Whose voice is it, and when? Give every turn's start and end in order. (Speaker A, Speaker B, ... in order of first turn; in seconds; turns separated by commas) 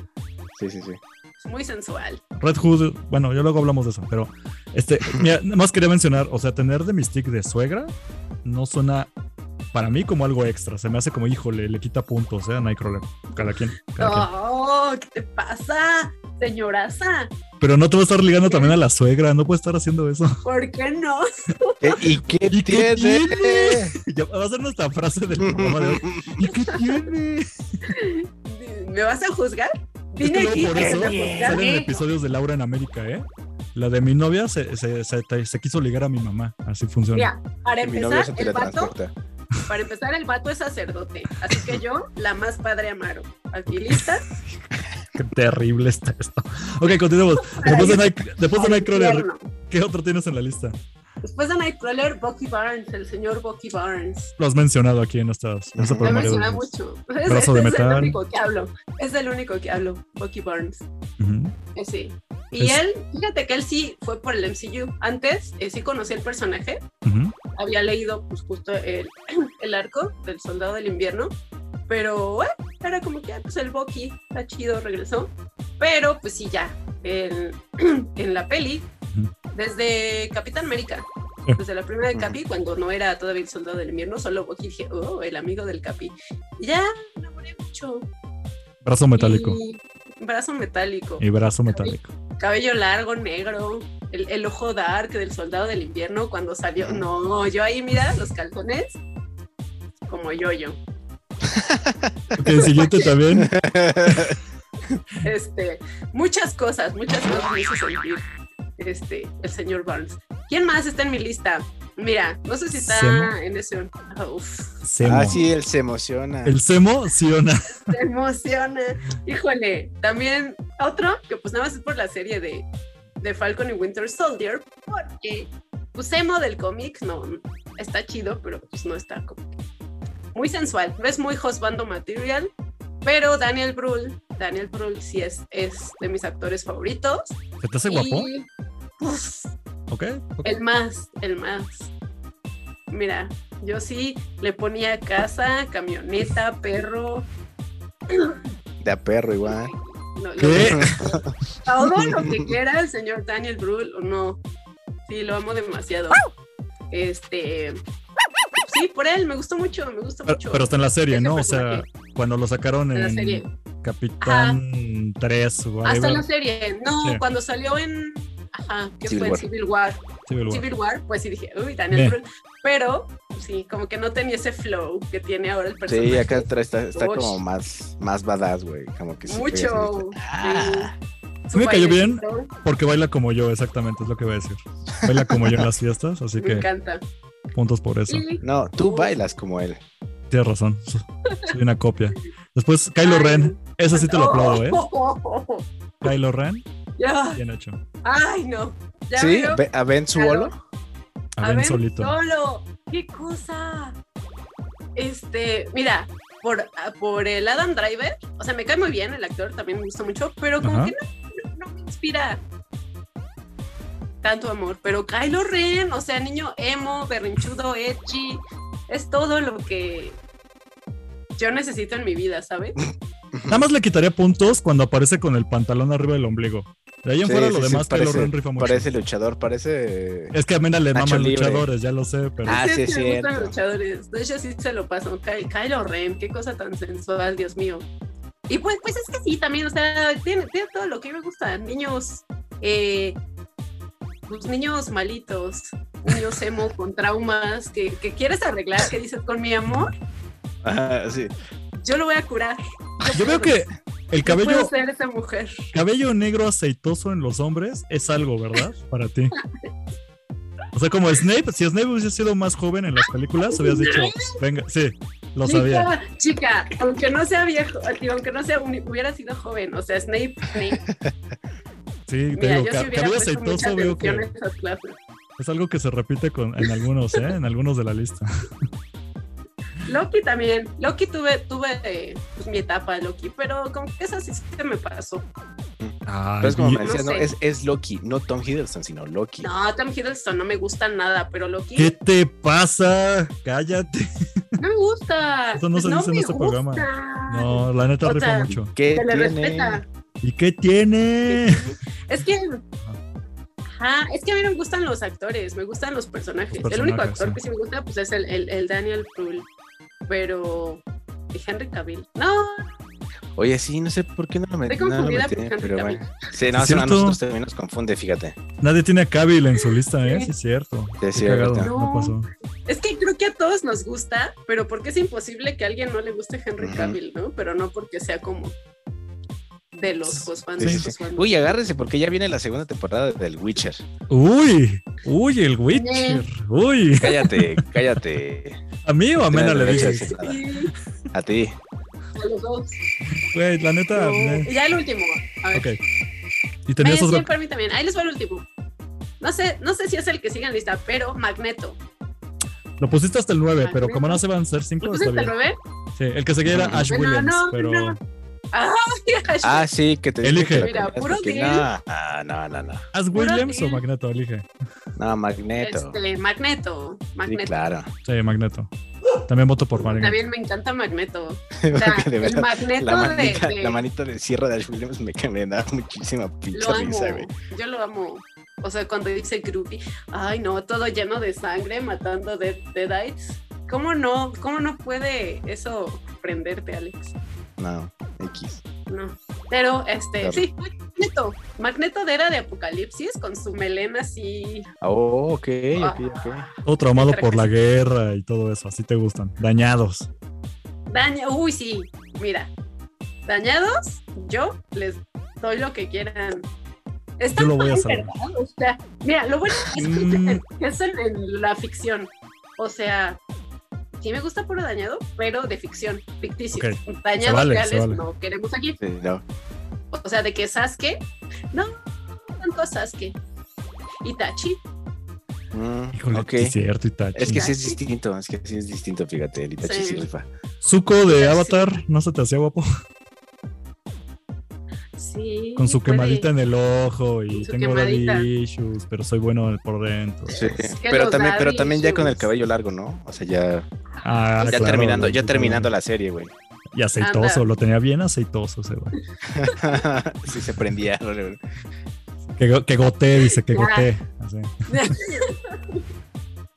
Speaker A: 0.6-1.0, Speaker B: 1.4-2.2, Speaker C: 2.4-7.9, Speaker C: 8.4-9.1, Speaker C: 9.7-14.3, Speaker B: 13.3-17.3, Speaker C: 17.6-20.4, Speaker B: 18.4-18.8, Speaker B: 20.4-22.0, Speaker A: 21.8-23.9, Speaker C: 22.5-27.8, Speaker A: 25.4-26.4, Speaker B: 26.5-26.8, Speaker B: 27.9-32.0, Speaker C: 30.2-37.3, Speaker A: 31.1-31.6, Speaker B: 37.1-38.9, Speaker A: 37.8-39.1, Speaker B: 39.6-44.2, Speaker C: 43.7-44.4, Speaker C: 45.1-50.8, Speaker B: 47.4-49.5, Speaker B: 51.2-54.3, Speaker C: 54.4-56.7, Speaker A: 55.8-56.1, Speaker B: 56.0-60.8, Speaker C: 57.2-58.2, Speaker C: 61.2-61.5, Speaker B: 61.8-66.8, Speaker C: 67.0-67.3, Speaker B: 67.5-71.3, Speaker B: 71.9-78.9, Speaker B: 79.5-88.1, Speaker C: 88.8-89.6, Speaker B: 89.1-99.0, Speaker C: 91.2-92.1, Speaker A: 96.8-97.0, Speaker B: 100.1-100.8, Speaker A: 101.4-104.4, Speaker C: 102.4-103.5, Speaker B: 102.5-103.1, Speaker B: 105.2-108.2, Speaker B: 108.8-114.7, Speaker C: 112.8-113.3, Speaker C: 114.8-115.4, Speaker A: 115.0-116.6, Speaker C: 116.4-117.9, Speaker B: 117.8-122.7, Speaker B: 123.2-129.5, Speaker B: 130.3-132.5, Speaker B: 133.0-137.4, Speaker C: 137.6-138.3, Speaker B: 137.9-138.5, Speaker B: 139.0-139.5, Speaker C: 139.9-140.5, Speaker B: 140.4-141.9, Speaker B: 142.9-147.3, Speaker B: 148.1-148.4, Speaker A: 148.8-149.7, Speaker B: 149.4-154.4, Speaker C: 150.4-151.0, Speaker A: 150.5-151.3, Speaker A: 152.0-152.5, Speaker B: 155.1-156.2, Speaker B: 156.9-157.8, Speaker B: 158.6-161.8, Speaker C: 160.3-166.2, Speaker B: 162.9-163.5, Speaker B: 164.2-164.6, Speaker B: 165.8-177.4, Speaker A: 169.1-169.4, Speaker C: 170.3-170.7, Speaker C: 171.9-172.2, Speaker A: 175.9-180.9, Speaker B: 179.3-180.9, Speaker B: 181.5-182.5, Speaker C: 181.5-186.7, Speaker A: 185.0-185.7, Speaker B: 186.4-187.0, Speaker C: 187.5-188.2, Speaker B: 188.1-189.1, Speaker A: 188.4-189.8, Speaker C: 190.3-194.8, Speaker B: 193.0-196.1, Speaker C: 196.0-196.6, Speaker B: 197.0-197.4, Speaker C: 197.3-197.8, Speaker B: 198.0-199.6, Speaker A: 199.2-200.5, Speaker B: 200.1-200.5, Speaker C: 201.4-202.1, Speaker B: 201.4-204.0, Speaker B: 204.9-212.4, Speaker C: 210.6-210.9, Speaker B: 214.2-220.2, Speaker B: 221.4-222.8, Speaker A: 223.3-223.6, Speaker C: 223.5-228.9, Speaker A: 227.2-230.3, Speaker C: 230.3-232.6, Speaker A: 230.9-231.7, Speaker A: 232.4-233.5, Speaker B: 232.5-237.8, Speaker B: 238.5-243.2, Speaker B: 244.3-249.9, Speaker C: 249.7-249.9, Speaker A: 250.6-251.3, Speaker B: 251.8-253.6, Speaker C: 253.1-254.7, Speaker B: 254.2-255.7, Speaker C: 255.7-259.3, Speaker C: 260.7-265.9, Speaker B: 263.5-264.4, Speaker B: 265.4-270.8, Speaker A: 270.8-271.1, Speaker C: 272.1-274.3, Speaker B: 272.3-275.0, Speaker C: 275.4-278.5, Speaker B: 279.8-285.2, Speaker A: 285.8-289.5, Speaker C: 286.1-286.8, Speaker B: 286.8-287.3, Speaker B: 289.4-291.9, Speaker C: 291.8-294.6, Speaker B: 294.6-299.8, Speaker C: 295.6-298.7, Speaker A: 298.7-299.8, Speaker C: 300.2-301.7, Speaker B: 301.3-302.6, Speaker B: 303.8-309.4, Speaker C: 306.5-307.4, Speaker B: 310.1-312.7, Speaker A: 313.4-318.4, Speaker B: 314.6-316.1, Speaker C: 316.5-317.2, Speaker C: 318.6-322.3, Speaker B: 319.6-320.3, Speaker A: 321.0-321.7, Speaker B: 321.6-322.1, Speaker B: 322.7-328.5, Speaker A: 326.6-327.0, Speaker B: 329.7-331.5, Speaker A: 330.6-333.8, Speaker C: 330.6-330.9, Speaker C: 334.1-337.4, Speaker B: 335.7-336.2, Speaker A: 337.0-338.6, Speaker C: 338.9-340.1, Speaker A: 339.3-340.4, Speaker B: 339.7-340.7, Speaker A: 341.1-341.6, Speaker B: 342.1-342.8, Speaker C: 343.3-344.5, Speaker B: 343.9-345.6, Speaker C: 346.7-347.3, Speaker B: 346.8-348.4, Speaker B: 349.2-351.8, Speaker C: 352.8-355.3, Speaker B: 353.6-354.2, Speaker B: 354.8-355.6, Speaker C: 355.9-358.0, Speaker A: 356.5-356.8, Speaker B: 356.8-358.0, Speaker B: 358.5-359.7, Speaker A: 359.4-362.8, Speaker C: 360.2-360.7, Speaker B: 360.6-361.7, Speaker C: 362.9-364.4, Speaker B: 363.1-363.8, Speaker A: 365.0-365.9, Speaker B: 365.6-367.6, Speaker A: 367.2-367.9, Speaker C: 368.0-368.7, Speaker C: 369.2-370.2, Speaker B: 369.8-373.8, Speaker A: 371.6-377.3, Speaker B: 376.5-387.1, Speaker A: 387.6-388.6, Speaker B: 388.9-394.7, Speaker A: 394.8-396.4, Speaker B: 395.8-397.5, Speaker C: 396.6-400.1, Speaker B: 400.9-402.5, Speaker B: 403.2-406.5, Speaker B: 407.2-413.2, Speaker C: 407.3-408.1, Speaker C: 409.7-410.4, Speaker B: 414.0-418.8, Speaker C: 416.5-418.0, Speaker A: 418.8-419.2, Speaker B: 419.9-423.1, Speaker B: 424.0-424.6, Speaker A: 425.5-426.5, Speaker C: 425.9-427.5, Speaker A: 427.1-430.2, Speaker B: 427.2-427.8, Speaker B: 429.6-430.1, Speaker C: 430.6-432.7, Speaker B: 431.1-431.8, Speaker B: 434.9-436.3, Speaker C: 435.6-440.6, Speaker B: 437.3-438.3, Speaker B: 440.3-442.3, Speaker A: 440.3-443.7, Speaker C: 444.0-445.7, Speaker B: 444.4-444.9, Speaker A: 444.5-446.3, Speaker C: 446.7-448.9, Speaker B: 447.0-447.4, Speaker A: 449.3-451.4, Speaker C: 452.3-454.9, Speaker B: 453.2-453.9, Speaker B: 454.7-455.8